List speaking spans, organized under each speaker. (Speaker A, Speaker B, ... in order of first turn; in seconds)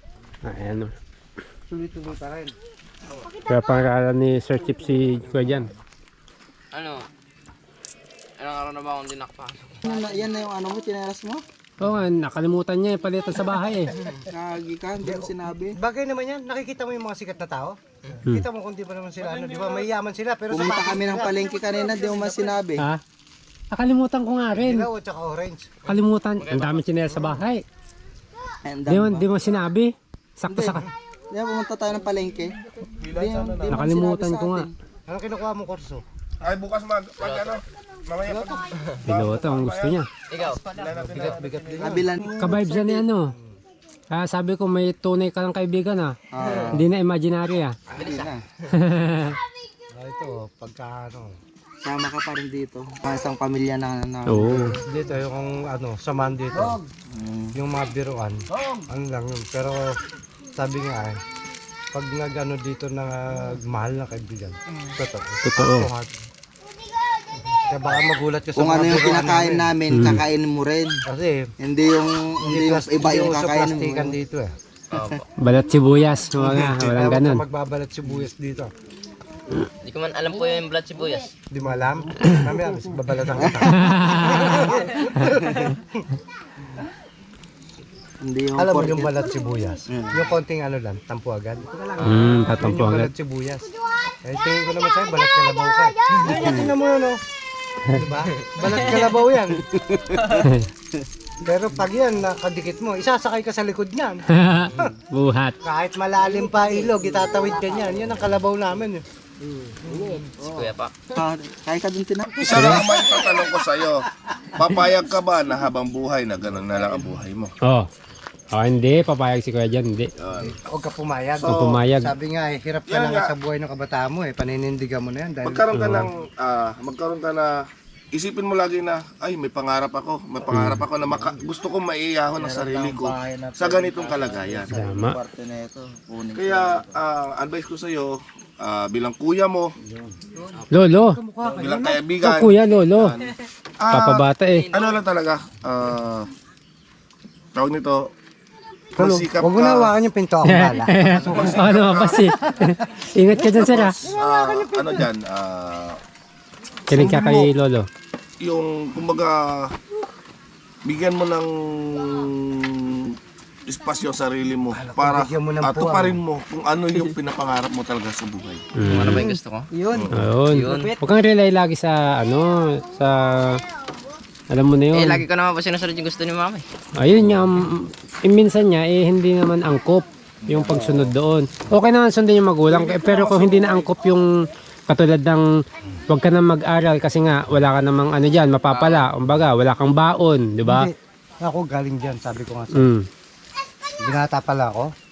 Speaker A: 0.5-0.9, 3.5-5.7, 11.8-13.9, 23.7-24.9, 25.9-27.6, 28.9-30.9, 33.7-34.7, 39.0-40.1, 42.4-43.3, 44.1-46.2, 46.7-47.8, 48.7-49.4, 54.3-54.8, 65.4-65.9, 69.9-70.2, 75.4-77.4, 83.7-84.5, 92.0-93.1, 100.4-100.7, 104.3-105.6, 112.5-112.9, 117.6-117.9, 118.5-120.1, 121.5-122.1, 125.7-126.1, 130.5-130.8, 134.7-135.2, 140.7-141.2, 142.2-143.2, 143.9-144.7, 150.4-154.0, 156.9-157.9, 168.8-169.2, 170.1-173.6, 174.5-175.2, 177.0-184.2, 184.9-185.4, 186.1-190.9, 192.7-193.0
Speaker B: 1.7-2.5, 15.0-22.5, 24.6-25.8, 35.1-36.0, 40.8-42.2, 49.9-51.4, 54.9-56.8, 57.5-60.0, 60.6-61.2, 61.9-66.1, 67.7-69.7, 71.1-71.5, 72.4-74.6, 76.5-78.7, 81.5-86.1, 88.6-93.7, 94.2-97.2, 97.9-99.7, 101.4-104.2, 105.6-109.0, 109.8-110.2, 120.4-125.7, 139.8-140.2, 141.0-142.0, 149.0-155.1, 164.7-166.2, 190.7-192.9, 194.0-194.9
Speaker C: 6.7-7.1, 8.4-9.8, 26.4-26.8, 37.2-37.6, 40.3-40.6, 47.9-48.3, 74.9-75.2, 79.8-81.3, 110.4-110.9, 144.5-144.9, 168.8-169.7, 170.5-170.9, 174.9-176.7, 188.7-189.1
Speaker D: 9.8-11.4, 14.3-15.8, 20.5-22.9, 28.6-29.3, 30.5-34.7, 38.3-38.6, 41.7-43.0, 46.3-46.9, 47.9-48.5, 51.8-54.8, 56.5-57.6, 58.5-58.9, 68.5-71.0, 71.6-74.2, 74.9-75.2, 83.3-83.8, 88.2-89.1, 89.9-90.3, 91.7-92.5, 96.2-96.5, 98.6-101.1, 106.2-108.3, 109.5-113.4, 116.8-117.2, 132.3-137.0, 169.2-171.0, 180.4-181.1
Speaker E: 33.0-33.8, 36.4-40.0, 40.7-42.0, 112.4-114.0, 114.5-117.5, 120.2-120.5, 121.4-121.8, 122.9-123.3, 125.4-127.6, 128.1-134.7, 136.3-139.7, 141.4-143.1, 143.8-146.3, 147.5-148.1, 149.0-149.9, 151.2-152.3, 153.5-156.0, 156.9-157.5, 158.4-159.7, 160.8-168.7, 182.7-183.9